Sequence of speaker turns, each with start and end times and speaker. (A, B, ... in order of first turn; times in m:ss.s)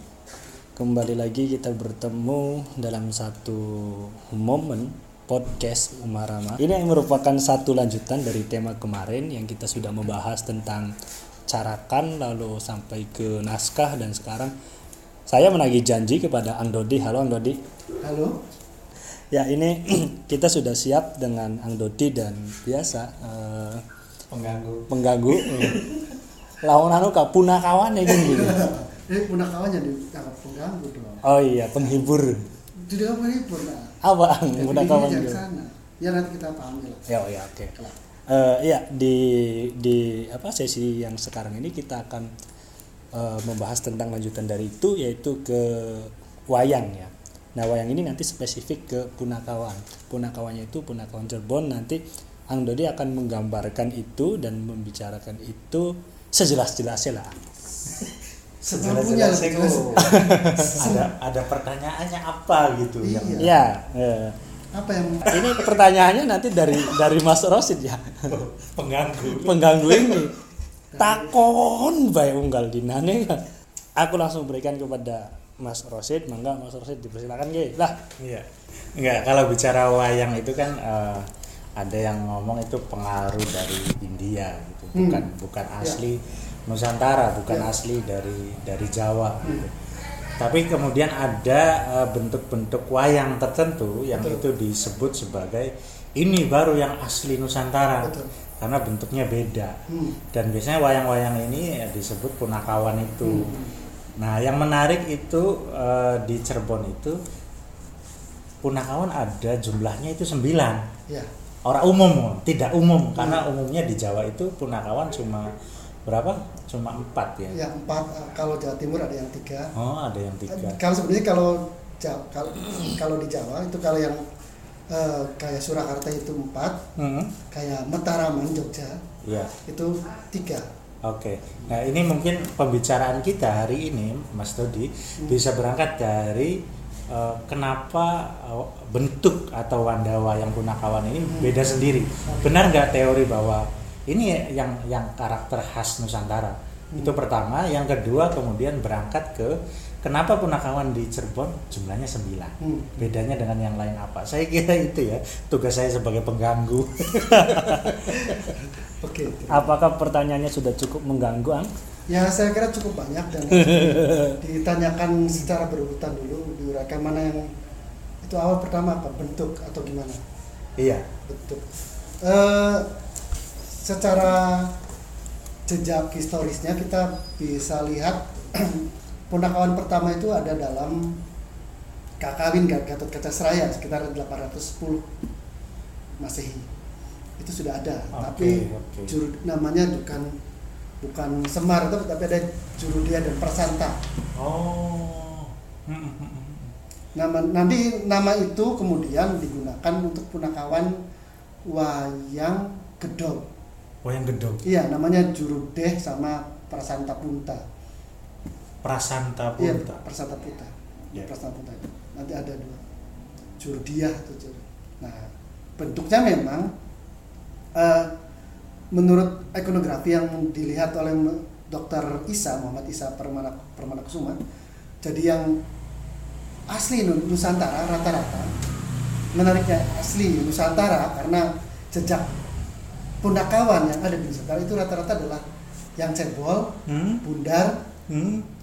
0:00.8-0:10.9 A
0:11.5-0:14.5 A
0:15.3-0:17.6 A
0:18.0-0:18.4 B
0:19.3-0:23.8 A
0:24.3-0:24.9 C
0:24.9-0:25.9 A
0:26.6-0:28.7 A
0:28.1-0:31.2 B
0:31.2-0:32.5 A
0:32.8-0:34.0 B
0:34.0-0:35.4 A
0:34.6-0:37.1 B
0:37.1-0:37.8 A
0:38.3-0:42.3 A
0:43.1-0:57.6 A
0:58.6-1:01.1 B
0:58.7-1:03.5 C
1:03.0-1:03.5 B
1:03.4-1:04.4 A
1:04.7-1:05.4 B
1:05.3-1:08.4 A
1:08.3-1:10.2 C
1:09.3-1:10.4 A
1:10.9-1:11.4 B
1:11.0-1:13.5 A
1:14.0-1:18.0 A
1:18.2-1:29.7 C
1:24.9-1:25.3 B
1:30.4-1:39.8 C
1:34.1-1:34.4 B
1:38.0-1:38.3 B
1:39.9-1:40.2 B
1:40.3-1:43.6 C
1:43.2-1:43.7 B
1:44.2-1:47.2 C
1:48.6-1:50.9 C
1:51.6-1:55.5 C
1:53.2-1:53.4 B
1:56.1-1:57.6 C
1:57.5-1:59.7 B
1:59.8-2:00.8 C
2:00.5-2:04.2 B
2:04.9-2:06.8 B
2:07.0-2:07.3 C
2:07.5-2:09.0 B
2:09.2-2:09.5 C
2:09.7-2:10.7 B
2:11.0-2:38.4 C
2:21.2-2:21.5 B
2:22.3-2:22.6 B
2:26.9-2:27.2 B
2:32.6-2:33.0 B
2:38.1-2:39.8 B
2:39.5-2:41.7 A
2:42.1-2:47.5 B
2:43.5-2:44.2 A
2:48.2-2:50.2 B
2:50.8-2:51.1 C
2:51.2-2:51.6 B
2:52.2-2:52.9 B
2:53.7-2:54.7 B
2:55.7-3:01.2 B
3:02.2-3:05.1 B
3:06.2-3:06.7 B
3:07.4-3:10.4 B
3:08.1-3:09.2 C
3:11.0-3:14.0 B
3:14.4-3:16.7 C
3:17.2-3:21.0 B
3:21.7-3:23.5 B
3:24.0-3:24.6 C
3:24.6-3:27.6 B
3:28.8-3:30.0 C
3:29.6-3:32.8 B
3:33.6-3:36.7 B
3:37.8-3:38.1 B
3:38.9-3:44.4 B
3:45.0-3:45.6 B
3:46.7-3:48.5 B
3:49.3-3:52.3 B
3:53.2-3:55.4 B
3:56.0-3:57.8 B
3:56.9-3:57.2 C
3:58.1-3:58.5 C